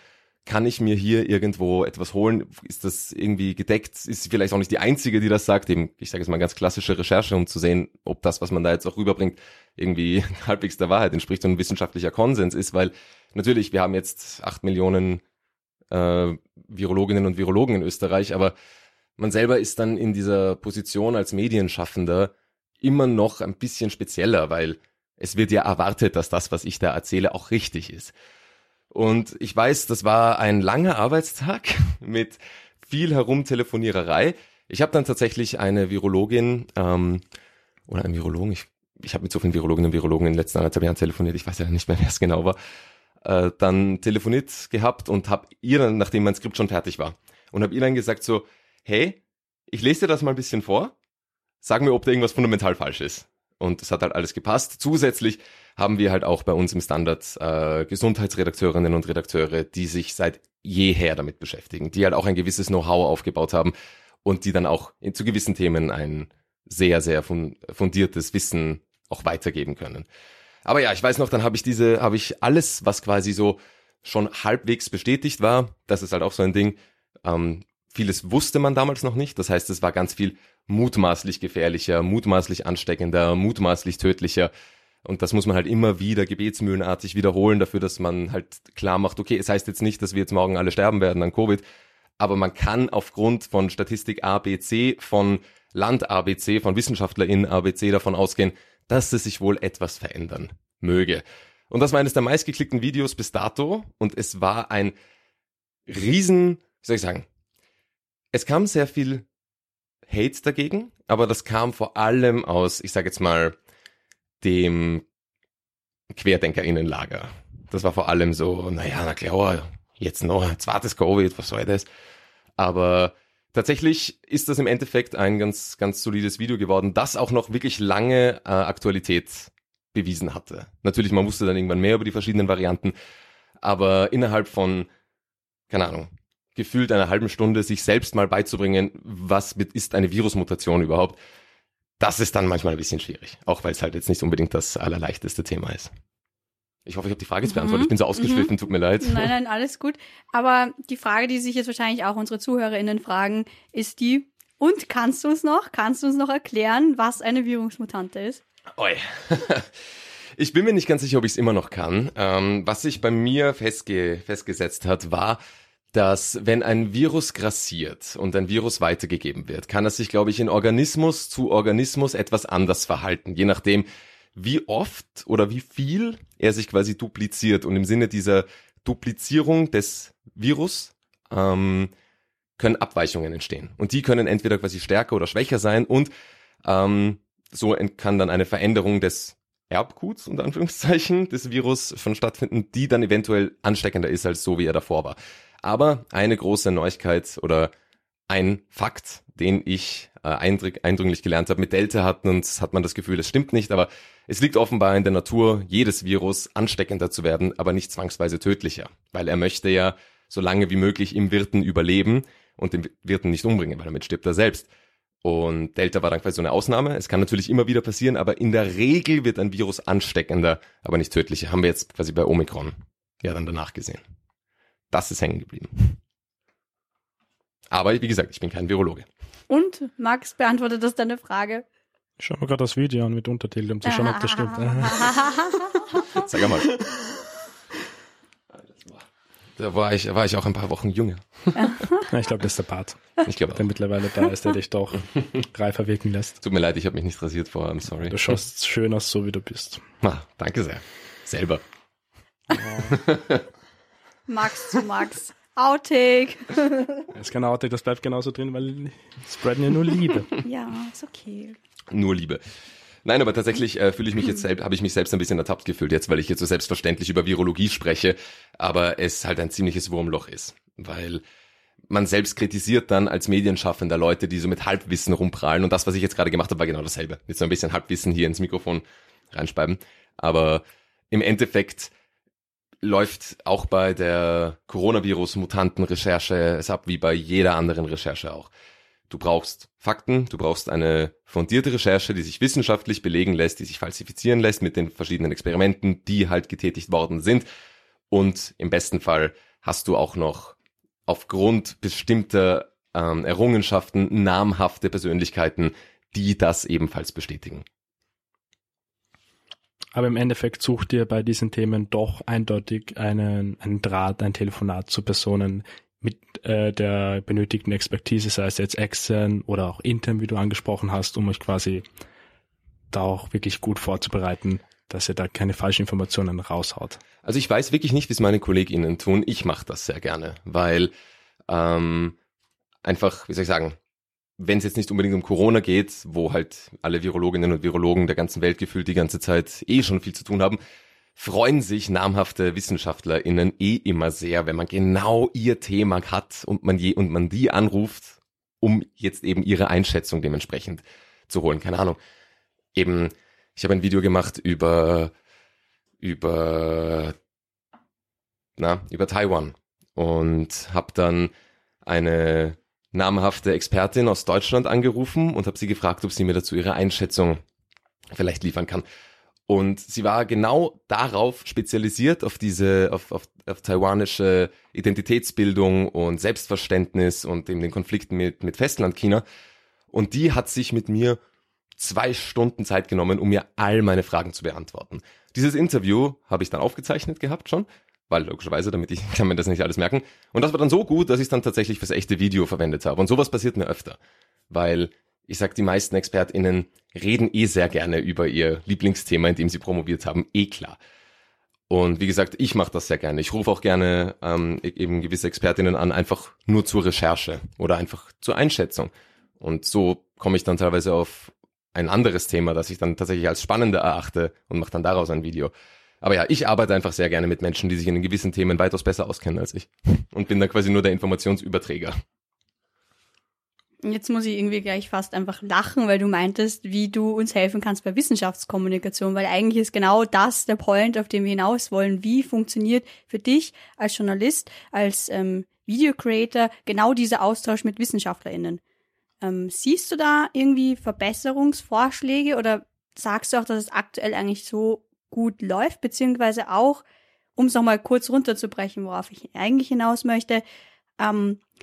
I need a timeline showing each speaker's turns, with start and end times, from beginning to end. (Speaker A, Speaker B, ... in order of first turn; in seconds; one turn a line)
Speaker A: 0.5-15.2
Speaker A: 15.9-18.5
Speaker A: 19.2-28.1
Speaker A: 28.9-37.2
Speaker A: 37.9-42.6
Speaker A: 43.2-49.2
Speaker A: 49.7-50.9
Speaker A: 51.6-70.1
Speaker A: 70.7-84.5
Speaker A: 85.0-91.7
Speaker A: 92.2-105.0
Speaker A: 105.9-107.3
Speaker A: 108.3-109.2
Speaker A: 110.1-113.6
Speaker A: 114.4-115.0
Speaker A: 116.1-121.9
Speaker A: 122.6-132.9
Speaker A: 133.6-134.9
Speaker A: 135.7-141.2
Speaker A: 142.0-145.9
Speaker A: 146.9-149.3
Speaker B: 147.5-158.4
Speaker A: 158.8-159.7
Speaker A: 160.4-165.4
Speaker A: 165.9-181.9
Speaker A: 182.6-186.1
Speaker A: 186.7-197.7
Speaker A: 198.3-214.7
Speaker A: 215.2-224.0
Speaker A: 224.9-226.0
Speaker A: 227.7-229.1
Speaker B: 229.5-231.7
Speaker C: 232.2-235.8
Speaker B: 233.8-235.8
Speaker A: 236.1-236.7
Speaker A: 239.6-241.8
Speaker B: 241.6-242.0
Speaker C: 242.0-246.4
Speaker A: 243.2-243.7
Speaker A: 246.4-248.4
Speaker C: 248.1-249.8
Speaker A: 250.0-251.6
Speaker C: 252.5-253.0
Speaker A: 252.9-253.4
Speaker B: 254.3-256.9
Speaker C: 257.1-260.3
Speaker B: 260.4-261.6
Speaker A: 261.9-262.4
Speaker A: 263.1-271.2
Speaker A: 271.9-281.9
Speaker A: 282.8-288.5
Speaker A: 289.1-297.5
Speaker A: 298.1-307.6
Speaker C: 309.9-321.8
Speaker C: 322.9-327.0
Speaker A: 327.2-330.9
Speaker A: 331.5-332.2
Speaker A: 332.8-333.8
Speaker A: 334.4-340.6
Speaker A: 341.2-352.0
Speaker A: 352.8-355.1
Speaker A: 356.0-357.1
Speaker A: 358.6-361.3
Speaker A: 361.9-367.4
Speaker A: 368.1-368.9
Speaker A: 369.5-379.2
Speaker A: 379.9-381.2
Speaker A: 381.8-394.0
Speaker A: 394.5-400.8
Speaker A: 401.7-421.9
Speaker B: 423.8-438.6
Speaker B: 439.2-446.8
Speaker B: 447.4-450.4
Speaker B: 451.0-451.4